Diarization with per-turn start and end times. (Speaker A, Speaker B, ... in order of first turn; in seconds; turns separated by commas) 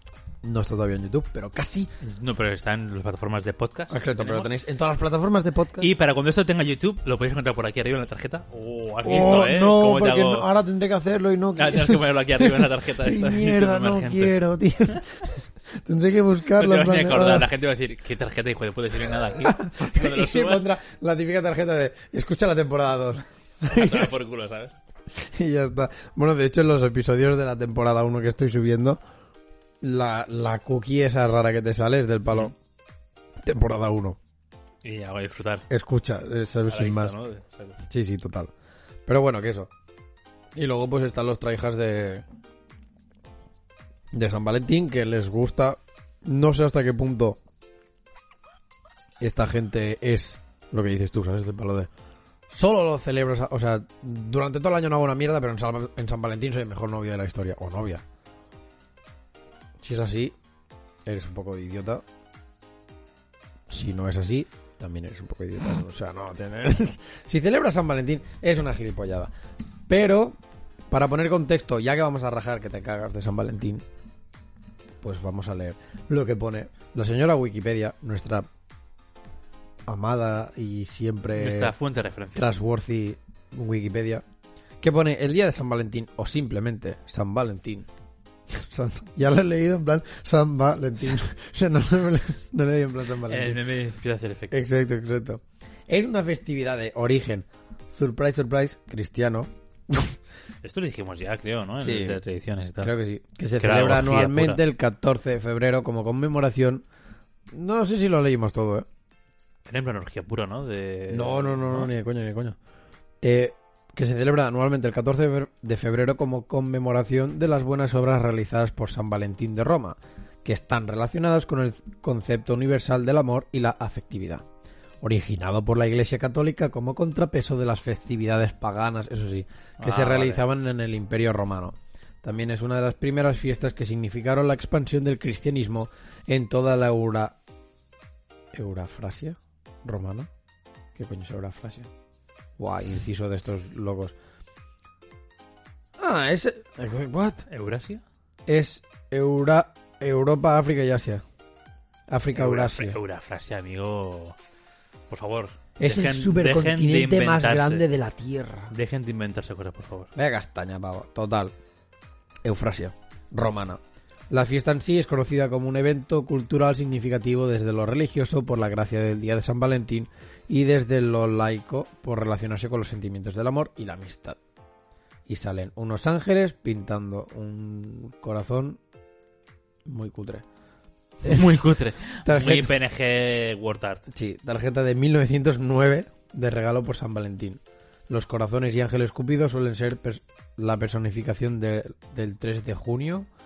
Speaker A: 0.4-1.9, Speaker B: 2.0-4.5, Speaker A: 3.9-5.9, Speaker B: 5.8-10.5, Speaker A: 9.0-17.5, Speaker B: 11.6-14.4, Speaker B: 16.6-20.7, Speaker A: 19.1-24.1, Speaker B: 23.6-24.8, Speaker A: 25.1-29.0, Speaker A: 29.8-32.5, Speaker A: 33.4-34.2, Speaker B: 34.8-35.7, Speaker A: 35.7-37.1, Speaker B: 36.7-37.8, Speaker A: 37.9-38.5, Speaker A: 39.1-39.7, Speaker A: 40.5-42.2, Speaker A: 44.1-47.4, Speaker A: 49.2-51.9, Speaker A: 52.5-58.0, Speaker A: 59.8-60.4, Speaker A: 61.0-62.0, Speaker A: 63.7-69.3, Speaker A: 69.9-70.4, Speaker A: 70.9-73.8, Speaker A: 75.0-78.5, Speaker A: 79.9-81.7, Speaker B: 81.3-82.5, Speaker A: 82.3-84.2, Speaker A: 84.8-87.9, Speaker A: 88.5-93.6, Speaker B: 93.3-94.6, Speaker A: 94.5-100.2, Speaker B: 100.6-102.9, Speaker A: 101.8-102.2, Speaker A: 102.8-106.8, Speaker B: 103.6-104.6, Speaker A: 107.5-108.9, Speaker B: 109.7-111.9, Speaker A: 111.1-112.6, Speaker A: 113.2-124.5, Speaker A: 125.0-137.4, Speaker B: 129.8-130.4, Speaker A: 138.5-140.3, Speaker A: 140.9-141.9, Speaker A: 142.6-144.2, Speaker A: 146.0-147.4, Speaker B: 147.5-148.0, Speaker A: 148.5-151.2, Speaker A: 152.1-153.0, Speaker B: 152.3-154.4, Speaker B: 155.1-157.9, Speaker A: 155.8-158.7, Speaker B: 158.7-160.1, Speaker A: 160.2-161.5, Speaker A: 162.4-174.4, Speaker A: 175.3-178.8, Speaker A: 179.9-180.4, Speaker A: 181.2-182.7, Speaker B: 181.2-184.0, Speaker A: 184.1-193.3